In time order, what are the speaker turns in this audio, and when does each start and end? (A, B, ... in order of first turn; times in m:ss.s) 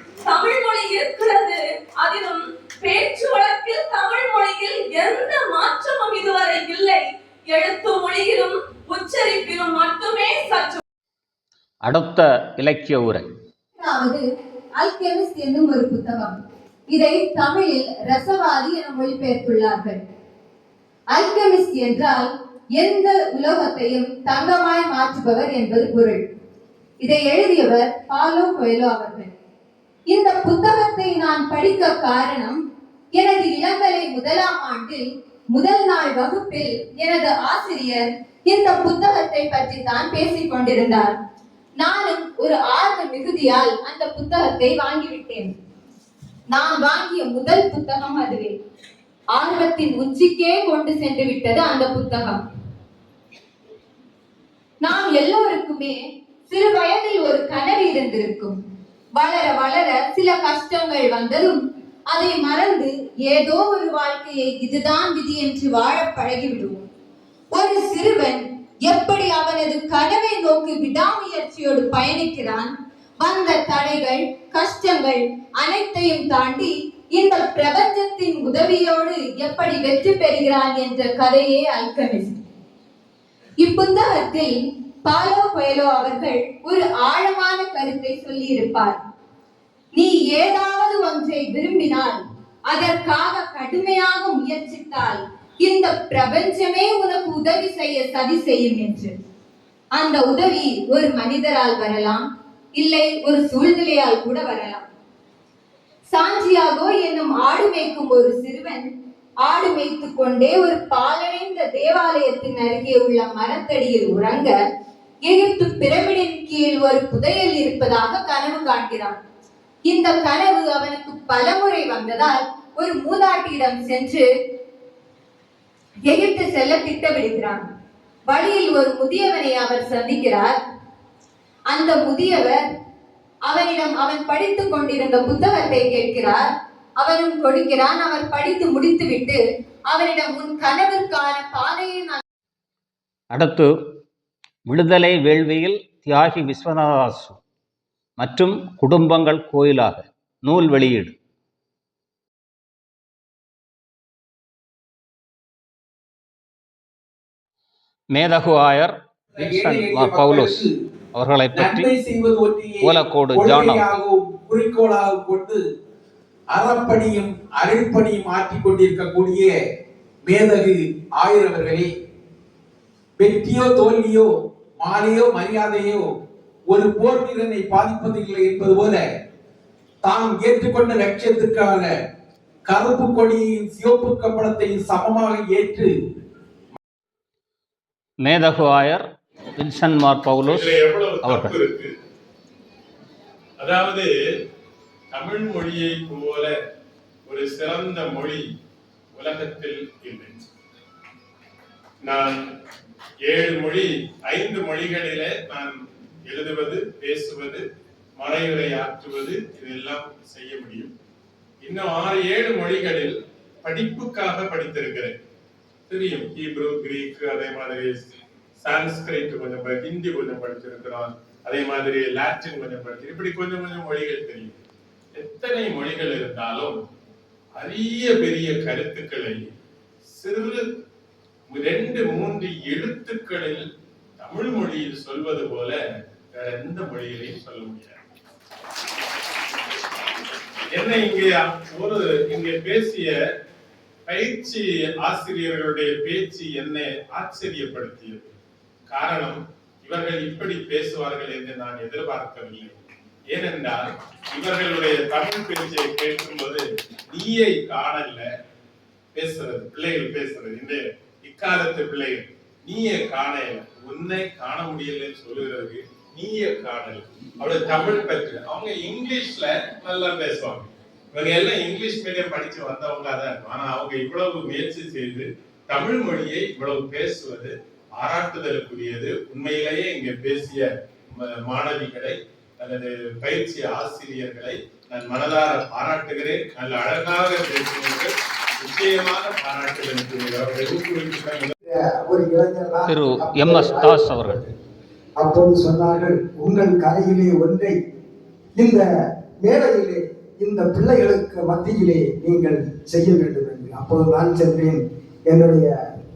0:00.2-0:10.8 A
0:11.8-0:13.3 B
0:13.8-0:14.2 C
0:14.8-0:16.4 C
0:16.9-0:20.0 C
0:21.1-0:26.2 C
0:27.0-0:29.3 C
0:30.1-0:32.6 C
0:33.1-0:41.1 C
0:41.8-0:45.5 C
0:46.5-0:48.6 C
0:49.4-0:52.4 C
0:54.8-0:58.6 C
0:59.2-1:06.9 C
1:07.5-1:22.4 C
1:23.6-1:29.0 C
1:29.9-1:39.1 C
1:39.9-1:42.2 C
1:42.8-1:44.8 C
1:46.1-1:48.9 C
1:49.4-1:54.6 C
1:55.2-1:59.2 C
1:59.9-2:04.2 C
2:06.1-2:07.7 C
2:08.3-2:10.6 C
2:11.7-2:12.6 C
2:13.5-2:16.5 C
2:17.0-2:22.2 C
2:23.3-2:23.8 B
2:24.7-2:27.4 B
2:28.2-2:31.2 B
2:38.1-2:40.6 B
2:39.4-2:40.7 D
2:41.2-2:41.9 B
2:41.5-2:45.6 D
2:42.8-2:43.9 B
2:46.5-2:49.6 D
2:50.2-2:51.9 D
2:53.2-2:56.1 D
2:56.7-2:59.0 D
3:00.0-3:01.9 D
3:02.7-3:05.9 D
3:08.2-3:09.1 B
3:09.6-3:11.6 B
3:10.4-3:11.9 E
3:13.6-3:14.1 E
3:15.1-3:16.5 E
3:17.3-3:18.4 E
3:19.2-3:20.4 E
3:22.0-3:22.4 E
3:23.3-3:25.8 E
3:26.3-3:27.6 E
3:28.2-3:30.9 E
3:31.6-3:35.1 E
3:35.9-3:38.0 E
3:38.6-3:44.6 E
3:45.2-3:46.8 E
3:47.6-3:49.5 E
3:50.2-3:50.6 E
3:51.5-3:53.6 E
3:54.2-3:55.8 E
3:56.4-3:58.0 E
4:00.7-4:03.1 E
4:04.1-4:08.3 E
4:08.9-4:12.8 E
4:13.3-4:18.2 E
4:19.2-4:40.7 E
4:41.2-4:51.6 E
4:51.7-4:54.5 F
4:52.9-4:54.4 B
4:55.2-4:57.8 F
4:58.6-4:58.8 F
4:59.4-5:05.7 F